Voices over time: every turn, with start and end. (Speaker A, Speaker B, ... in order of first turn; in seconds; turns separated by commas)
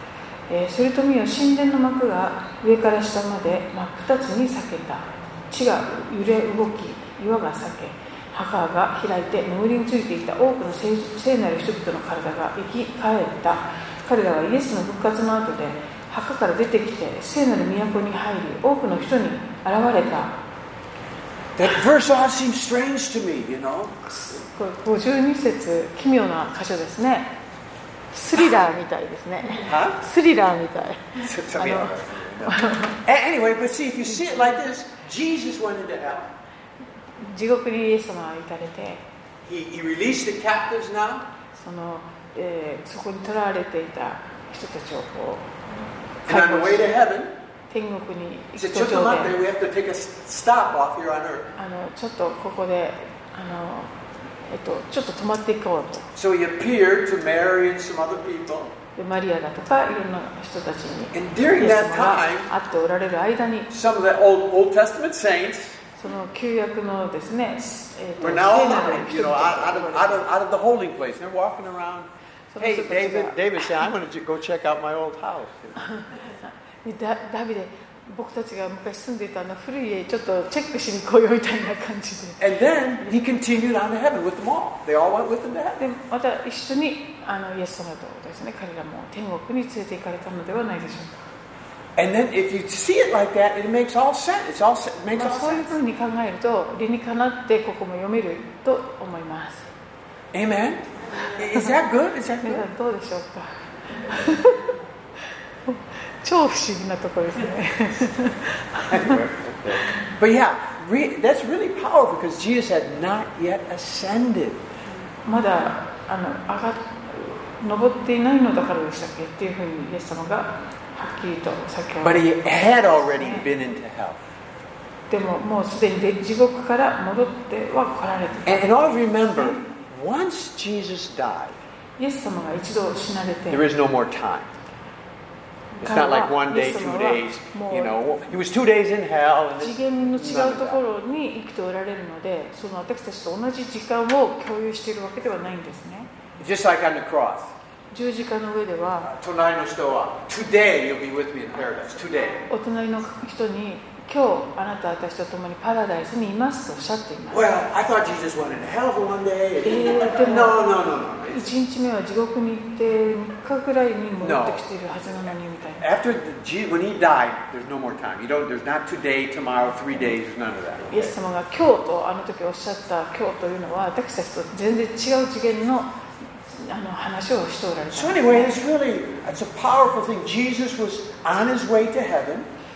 Speaker A: 0.5-20.4, Speaker B: 21.6-24.0, Speaker A: 24.1-27.3, Speaker A: 28.1-33.0, Speaker B: 29.6-30.0, Speaker B: 31.2-36.3, Speaker A: 37.2-39.0, Speaker B: 39.4-41.3, Speaker A: 41.5-45.5, Speaker A: 46.2-46.9, Speaker B: 46.3-47.3, Speaker A: 47.7-49.4, Speaker B: 48.6-51.5, Speaker A: 51.6-53.9, Speaker A: 54.5-56.1, Speaker B: 56.2-58.8, Speaker A: 59.0-63.7, Speaker B: 61.1-62.5, Speaker B: 63.7-65.8, Speaker A: 66.0-70.2, Speaker B: 68.2-75.9, Speaker A: 72.5-73.7, Speaker A: 75.8-76.2, Speaker A: 76.8-82.4, Speaker B: 82.4-85.8, Speaker A: 85.8-91.3, Speaker B: 92.0-95.8, Speaker A: 95.2-99.7, Speaker B: 100.3-102.7, Speaker A: 102.4-104.8, Speaker A: 105.7-109.2, Speaker B: 108.9-114.6, Speaker A: 115.2-123.5, Speaker B: 122.0-124.2, Speaker A: 125.1-128.8, Speaker B: 128.5-131.6, Speaker A: 132.0-133.7, Speaker B: 133.5-134.5, Speaker A: 135.8-137.9, Speaker B: 135.8-140.8, Speaker A: 139.6-146.1, Speaker B: 146.4-147.5, Speaker A: 147.9-149.1, Speaker B: 149.0-152.4, Speaker A: 152.5-157.4, Speaker B: 157.3-161.5, Speaker A: 159.6-160.6, Speaker A: 161.3-165.8, Speaker B: 164.2-164.8, Speaker B: 165.8-171.1, Speaker A: 170.9-175.9, Speaker A: 176.5-178.6, Speaker B: 177.9-182.5